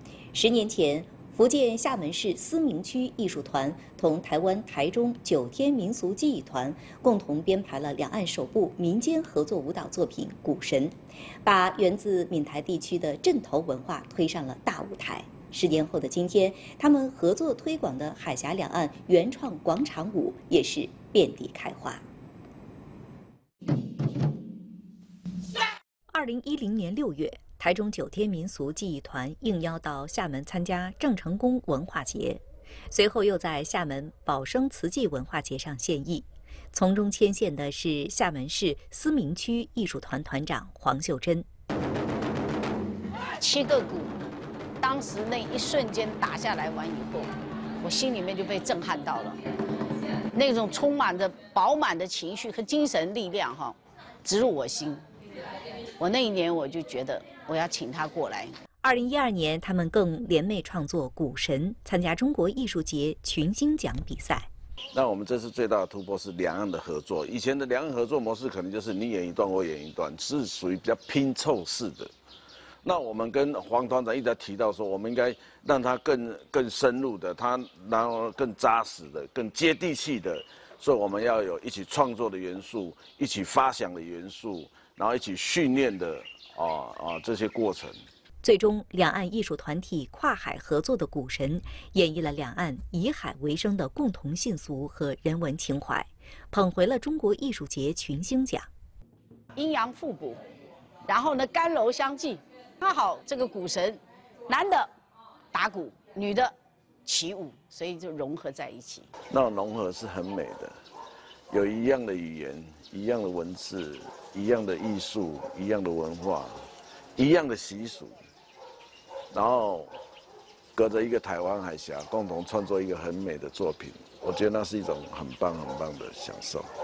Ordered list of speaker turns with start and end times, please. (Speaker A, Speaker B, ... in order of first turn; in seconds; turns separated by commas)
Speaker A: 0.3-22.0, Speaker A: 26.1-41.5, Speaker B: 43.4-44.2, Speaker B: 44.8-49.4, Speaker B: 50.3-55.0, Speaker B: 56.0-58.6, Speaker A: 58.8-64.5, Speaker C: 64.9-72.1, Speaker C: 72.8-88.0, Speaker A: 88.4-98.7, Speaker B: 99.5-100.4, Speaker B: 101.0-104.9, Speaker B: 105.5-106.5, Speaker B: 107.0-109.1, Speaker C: 109.3-110.7, Speaker C: 111.5-118.2, Speaker C: 119.3-119.9, Speaker C: 120.7-126.7